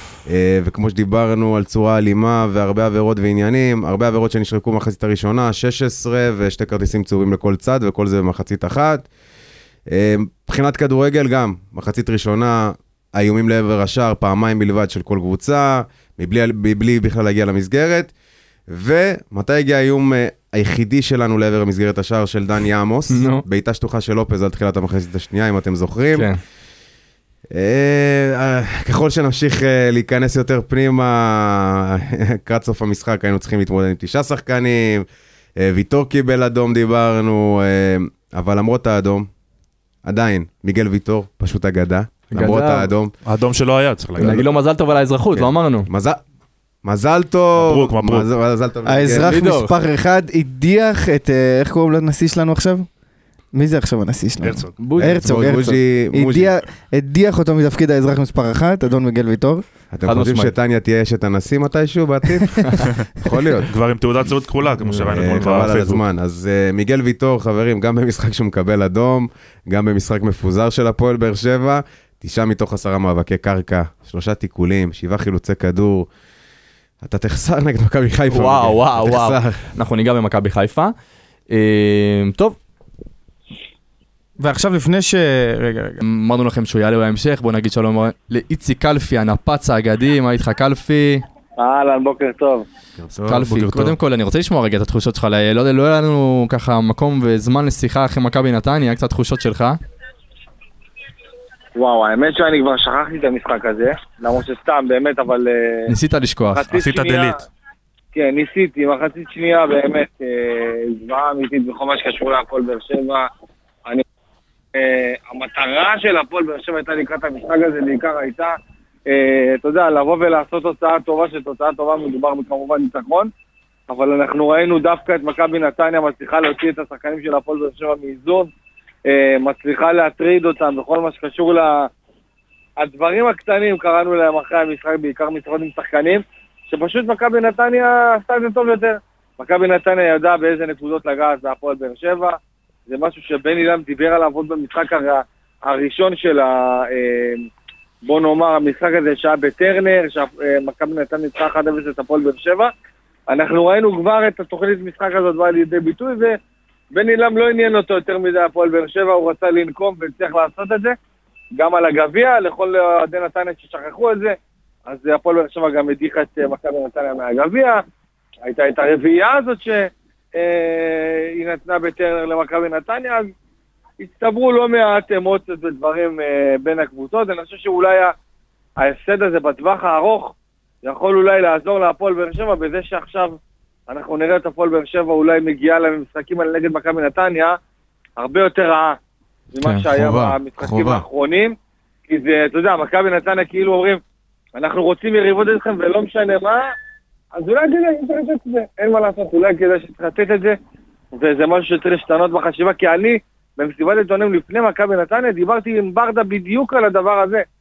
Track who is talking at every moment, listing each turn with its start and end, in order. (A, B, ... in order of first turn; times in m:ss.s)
0:00.2-0:09.1 A
0:09.9-0:18.1 A
0:18.7-0:26.3 A
0:23.1-0:23.4 B
0:26.1-0:26.4 B
0:27.5-0:35.0 A
0:35.6-0:39.3 A
0:40.0-0:43.1 A
0:42.3-0:42.9 B
0:43.2-0:44.4 C
0:44.1-0:44.5 A
0:44.2-0:45.9 B
0:45.3-0:46.2 A
0:46.8-0:49.4 A
0:47.6-0:48.3 C
0:48.9-0:52.9 D
0:49.1-0:49.7 B
0:53.5-0:59.6 D
0:54.4-0:54.7 C
0:54.8-0:55.5 B
0:55.0-0:56.5 A
0:59.9-1:03.7 A
1:00.0-1:00.5 B
1:03.7-1:06.0 C
1:04.8-1:05.3 B
1:04.9-1:16.1 A
1:17.0-1:19.6 A
1:18.3-1:20.9 B
1:21.5-1:22.6 B
1:24.4-1:26.0 D
1:26.0-1:31.2 B
1:31.6-1:32.6 E
1:33.0-1:33.4 A
1:33.3-1:39.8 B
1:33.4-1:33.9 C
1:41.7-1:45.9 E
1:45.9-1:46.6 B
1:46.5-1:47.4 E
1:46.7-1:47.4 C
1:48.1-1:53.3 E
1:54.7-1:58.5 E
1:59.1-2:03.3 E
2:03.9-2:08.5 E
2:09.0-2:11.9 E
2:12.8-2:22.4 E
2:22.9-2:27.4 E
2:28.0-2:32.7 E
2:33.3-2:36.4 E
2:36.9-2:40.9 E
2:41.6-2:44.4 E
2:44.9-2:47.8 E
2:48.4-2:53.3 E
2:54.0-2:58.1 E
2:58.8-3:03.3 E
3:03.9-3:07.6 E
3:08.2-3:09.0 E
3:09.5-3:11.5 E
3:09.6-3:09.8 B
3:09.8-3:11.0 A
3:12.1-3:14.0 E
3:14.5-3:16.6 E
3:17.3-3:20.6 E
3:21.1-3:27.4 E